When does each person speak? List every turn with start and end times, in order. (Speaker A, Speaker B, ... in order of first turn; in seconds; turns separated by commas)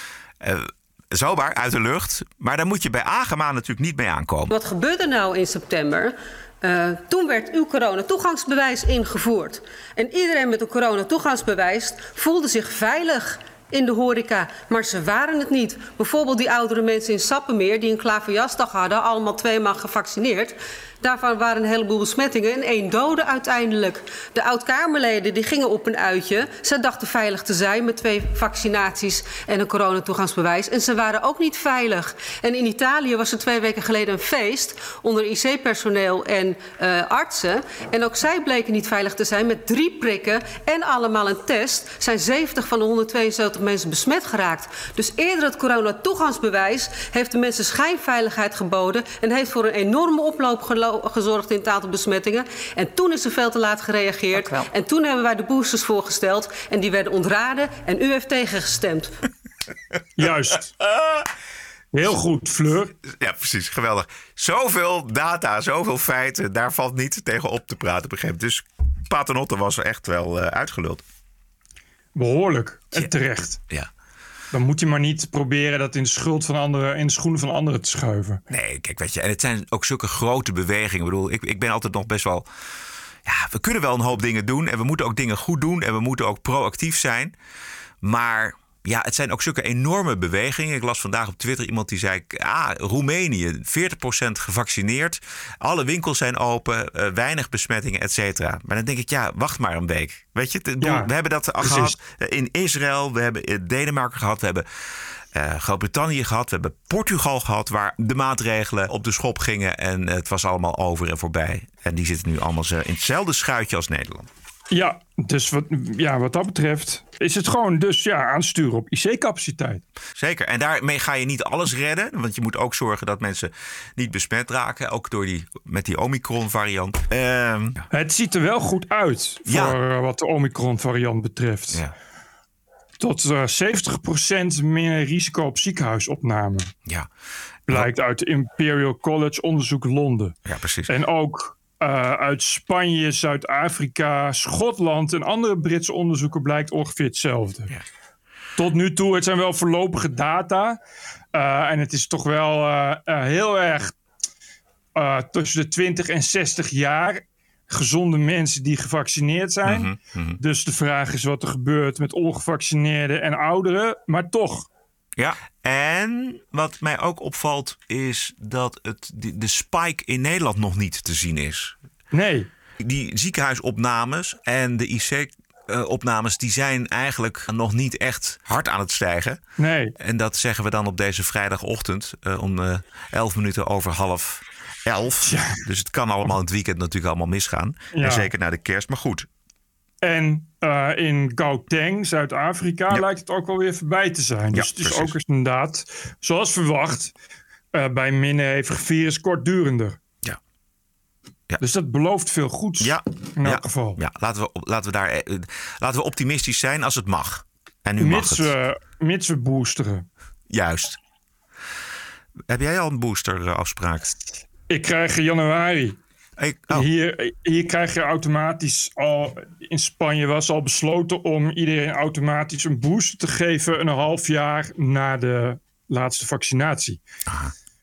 Speaker A: 0.4-4.5, Speaker B: 4.5-59.1, Speaker C: 60.2-60.7, Speaker A: 60.8-61.3, Speaker C: 61.9-62.9, Speaker A: 63.0-71.0, Speaker C: 72.2-73.6, Speaker C: 74.5-78.4, Speaker A: 78.5-82.5, Speaker A: 83.2-87.3, Speaker A: 88.0-104.7, Speaker C: 100.8-101.1, Speaker C: 101.6-101.9, Speaker A: 105.3-114.3, Speaker C: 114.7-119.8, Speaker A: 120.2-127.8, Speaker C: 127.9-131.8, Speaker A: 129.5-129.8, Speaker C: 133.0-136.7, Speaker C: 137.7-140.3, Speaker A: 140.5-140.9, Speaker C: 140.9-147.7, Speaker C: 148.6-150.8, Speaker C: 151.3-154.0, Speaker C: 155.0-164.7, Speaker A: 159.7-160.4, Speaker A: 165.2-171.8, Speaker C: 172.1-172.5, Speaker A: 172.8-179.4, Speaker C: 179.6-179.9, Speaker A: 180.0-189.3, Speaker C: 185.2-185.6, Speaker C: 187.9-188.3, Speaker C: 190.0-197.1, Speaker A: 194.5-195.1, Speaker C: 197.7-200.0, Speaker C: 201.6-204.0, Speaker A: 202.8-208.5, Speaker C: 208.0-210.1, Speaker A: 210.5-211.0, Speaker A: 212.5-214.1, Speaker C: 214.7-216.0, Speaker A: 216.4-216.9, Speaker C: 216.7-227.0, Speaker A: 227.3-227.5